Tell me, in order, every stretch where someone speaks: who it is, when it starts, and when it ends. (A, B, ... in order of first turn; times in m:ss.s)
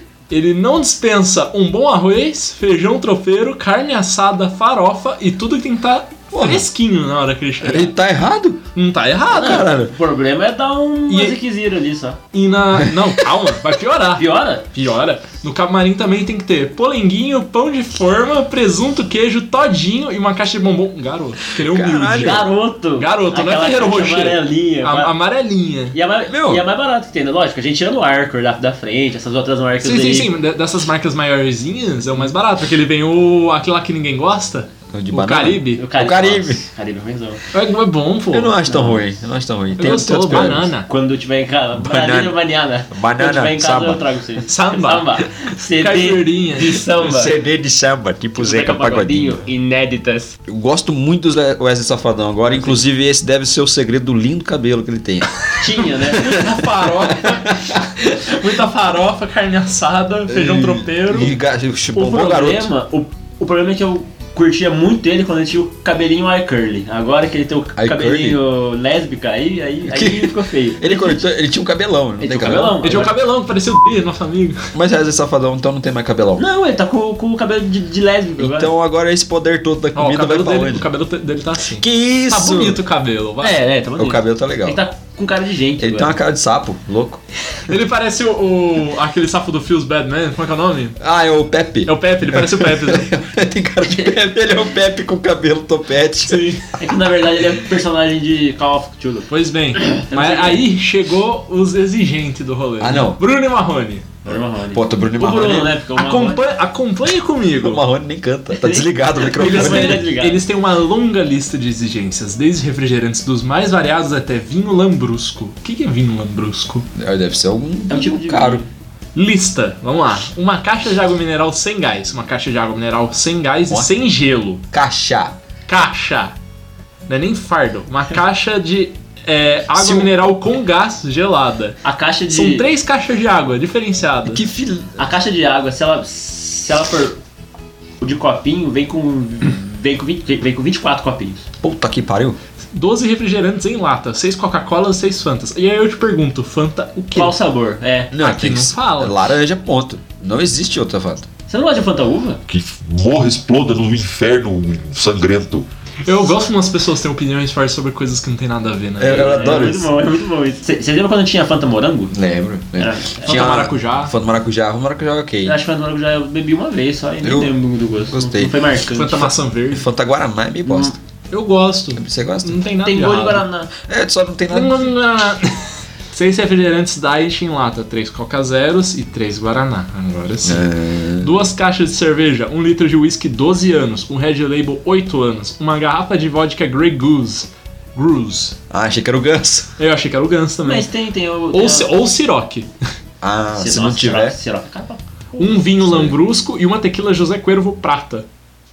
0:00.3-0:07.9 A
0:06.3-0:06.7 B
0:07.6-0:08.6 B
0:08.7-0:09.7 A
0:09.3-0:09.9 B
0:09.3-0:12.2 C
0:11.1-0:11.4 A
0:12.3-0:25.9 A
0:14.2-0:14.6 C
0:21.6-0:22.5 B
0:22.1-0:25.1 C
0:25.9-0:30.3 C
0:26.3-0:26.6 B
0:29.8-0:35.8 A
0:34.9-0:36.6 B
0:35.8-0:37.4 C
0:37.5-0:38.6 A
0:38.3-0:40.7 B
0:38.7-0:39.0 C
0:39.8-0:40.9 A
0:40.8-0:47.3 C
0:41.7-0:42.4 B
0:42.9-0:44.0 B
0:44.5-0:46.9 A
0:47.0-0:49.4 B
0:48.4-0:50.4 C
0:50.5-0:55.4 B
0:55.6-0:56.3 C
0:56.0-0:58.1 B
0:56.1-1:01.4 A
1:00.3-1:02.7 B
1:01.9-1:11.2 C
1:07.8-1:08.4 B
1:09.9-1:13.0 B
1:12.2-1:13.1 C
1:12.8-1:14.6 A
1:14.7-1:16.4 B
1:16.4-1:18.7 C
1:18.4-1:20.9 B
1:19.9-1:23.6 A
1:21.8-1:22.8 B
1:23.4-1:26.1 C
1:24.0-1:24.8 B
1:25.8-1:27.2 B
1:27.6-1:31.0 A
1:31.0-1:36.6 B
1:31.8-1:33.1 A
1:36.3-1:36.6 A
1:36.8-1:39.3 C
1:39.3-1:44.1 A
1:39.8-1:40.6 C
1:42.8-1:43.2 B
1:44.2-1:46.4 C
1:44.7-1:45.7 B
1:45.9-1:47.8 A
1:47.6-1:50.1 B
1:48.5-1:50.4 C
1:49.3-1:56.9 A
1:56.9-1:58.6 B
1:57.9-1:58.7 C
1:59.1-2:04.6 A
2:04.7-2:05.4 B
2:05.7-2:06.3 A
2:07.1-2:14.4 A
2:09.8-2:10.1 B
2:11.8-2:12.7 C
2:14.2-2:15.0 B
2:15.0-2:17.2 C
2:18.0-2:21.4 C
2:21.6-2:22.4 B
2:22.7-2:27.4 A
2:27.1-2:28.1 C
2:28.1-2:31.3 B
2:28.2-2:29.2 A
2:31.5-2:32.4 C
2:32.5-2:35.7 D
2:36.0-2:39.6 A
2:39.0-2:39.9 B
2:39.0-2:42.1 C
2:42.1-2:45.6 B
2:42.8-2:43.4 C
2:43.2-2:44.1 A
2:45.4-2:49.3 C
2:47.2-2:48.6 B
2:48.9-2:49.9 A
2:49.7-2:51.0 B
2:50.7-2:50.9 C
2:51.3-2:53.4 A
2:52.0-2:52.6 B
2:52.8-2:53.7 C
2:53.8-2:54.8 B
2:54.5-3:00.7 A
3:00.4-3:01.4 B
3:01.2-3:08.6 A
3:08.7-3:09.7 B
3:09.8-3:10.9 A
3:10.6-3:11.9 C
3:11.5-3:12.7 A
3:13.2-3:14.3 B
3:13.5-3:15.6 C
3:15.4-3:18.2 A
3:15.8-3:16.1 B